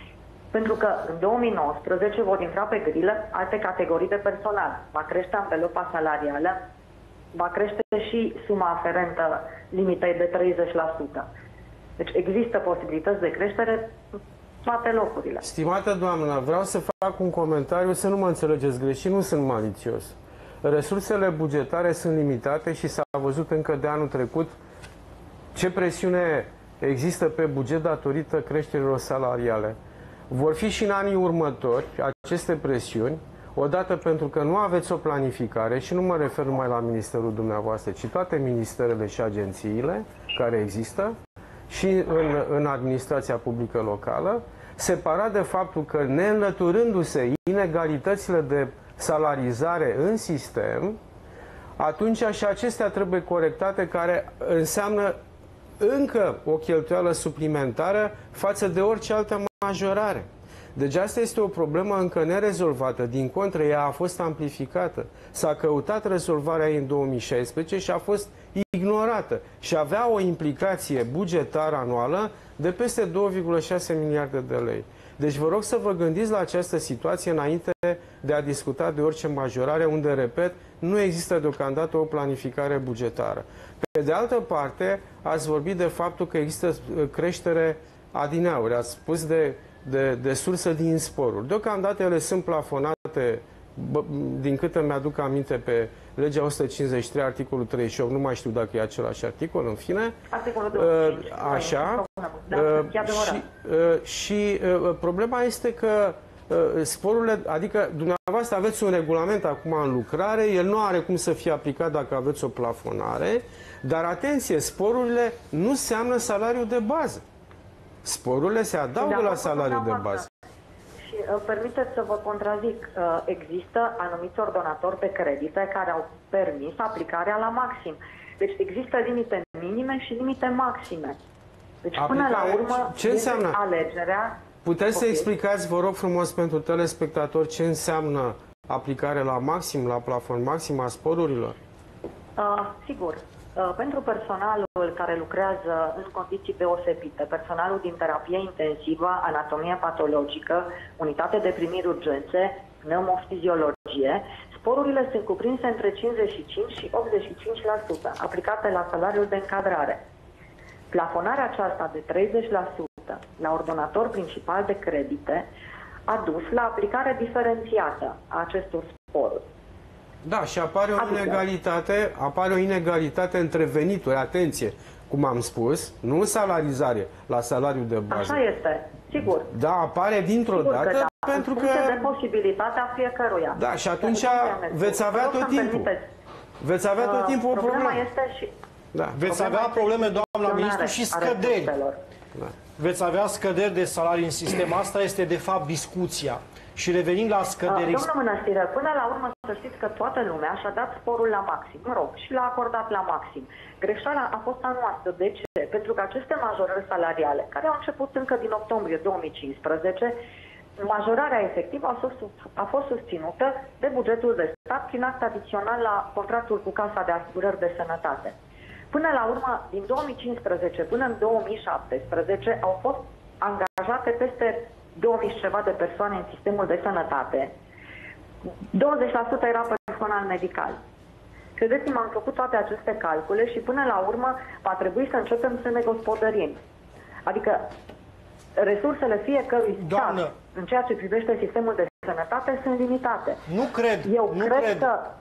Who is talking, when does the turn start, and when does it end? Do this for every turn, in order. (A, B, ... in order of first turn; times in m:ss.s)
0:00.5-0:06.6 A
0:07.3-0:11.2 A
0:12.0-0:14.0 A
0:14.6-0:15.4 A
0:15.4-0:24.5 B
0:25.6-0:29.8 B
0:30.3-0:41.1 B
0:41.7-0:51.0 B
0:51.8-0:55.2 B
0:55.8-1:40.2 B
1:40.3-1:43.4 A
1:40.7-1:57.2 B
1:58.0-2:00.2 B
1:59.0-2:00.3 A
2:01.1-2:11.2 A
2:11.8-2:15.3 A
2:12.0-2:13.6 B
2:14.6-2:21.6 B
2:22.4-2:40.0 A
2:40.9-2:45.5 A
2:46.1-2:49.4 A
2:50.2-2:58.4 B
2:51.0-2:51.4 A
2:58.1-2:59.5 A
2:59.5-3:02.1 B
3:00.5-3:06.1 A
3:03.5-3:05.9 B
3:06.6-3:08.0 B
3:07.0-3:08.5 A
3:08.9-3:09.2 B
3:09.2-3:11.7 C
3:09.2-3:12.0 A
3:12.8-3:18.1 C
3:17.7-3:30.2 A
3:30.8-3:38.4 A
3:38.9-3:47.5 A
3:48.7-3:50.8 A
3:51.6-3:56.6 A
3:57.3-3:57.6 A
3:58.6-4:03.4 A
3:59.8-4:00.3 C
4:03.5-4:04.9 C
4:04.0-4:05.1 A